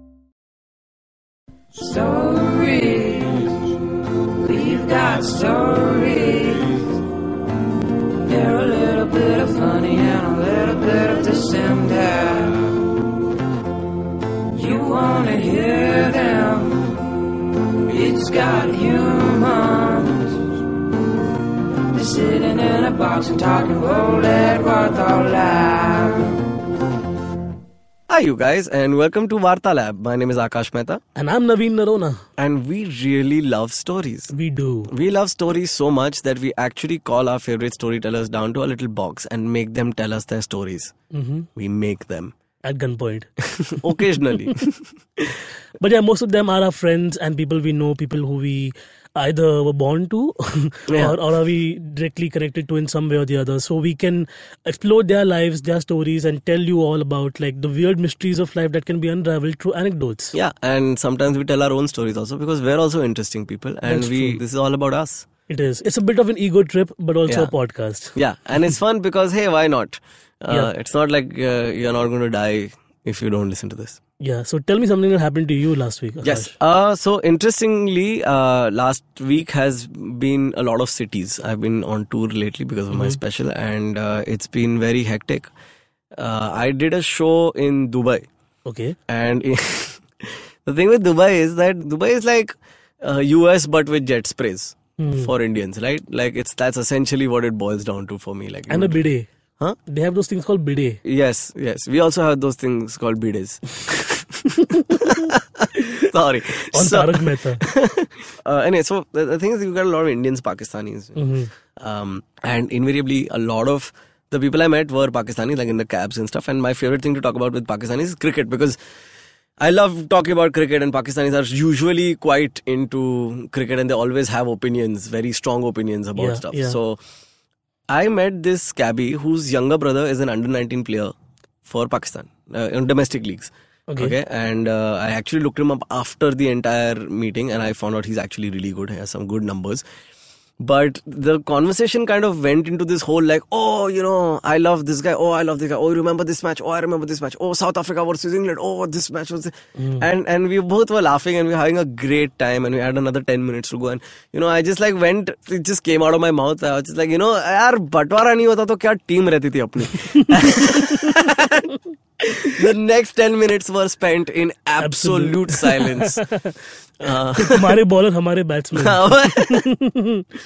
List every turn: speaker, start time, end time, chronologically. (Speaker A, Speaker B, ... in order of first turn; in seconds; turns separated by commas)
Speaker A: 1.8-3.6, Speaker A: 4.4-6.8, Speaker A: 8.2-12.8, Speaker A: 14.5-16.9, Speaker A: 17.9-20.4, Speaker A: 21.9-26.4, Speaker B: 28.1-31.0, Speaker C: 31.2-32.2, Speaker B: 32.4-34.3, Speaker C: 34.3-34.9, Speaker B: 34.9-40.9, Speaker C: 41.1-41.5, Speaker B: 41.6-42.3, Speaker C: 42.6-43.3, Speaker B: 43.8-45.3, Speaker C: 45.8-60.4, Speaker B: 50.9-51.2, Speaker B: 60.3-65.3, Speaker C: 63.9-64.4, Speaker C: 65.5-68.2, Speaker B: 67.3-67.5, Speaker B: 68.2-74.0, Speaker C: 74.2-76.5, Speaker B: 76.2-85.5, Speaker C: 82.9-83.2, Speaker B: 86.2-88.3, Speaker C: 88.7-89.0, Speaker B: 89.1-99.0, Speaker C: 95.0-95.3, Speaker C: 98.7-99.3, Speaker C: 99.9-101.0, Speaker B: 101.0-118.8, Speaker C: 104.7-105.2, Speaker C: 106.7-107.6, Speaker C: 111.2-111.5, Speaker B: 119.6-127.0, Speaker C: 126.2-126.8, Speaker B: 127.9-131.1, Speaker B: 131.7-139.8, Speaker C: 133.9-134.2, Speaker B: 140.6-161.7, Speaker C: 149.8-150.1, Speaker C: 159.9-161.2, Speaker B: 162.5-166.3, Speaker C: 164.8-170.3, Speaker B: 167.0-167.8, Speaker B: 168.8-169.7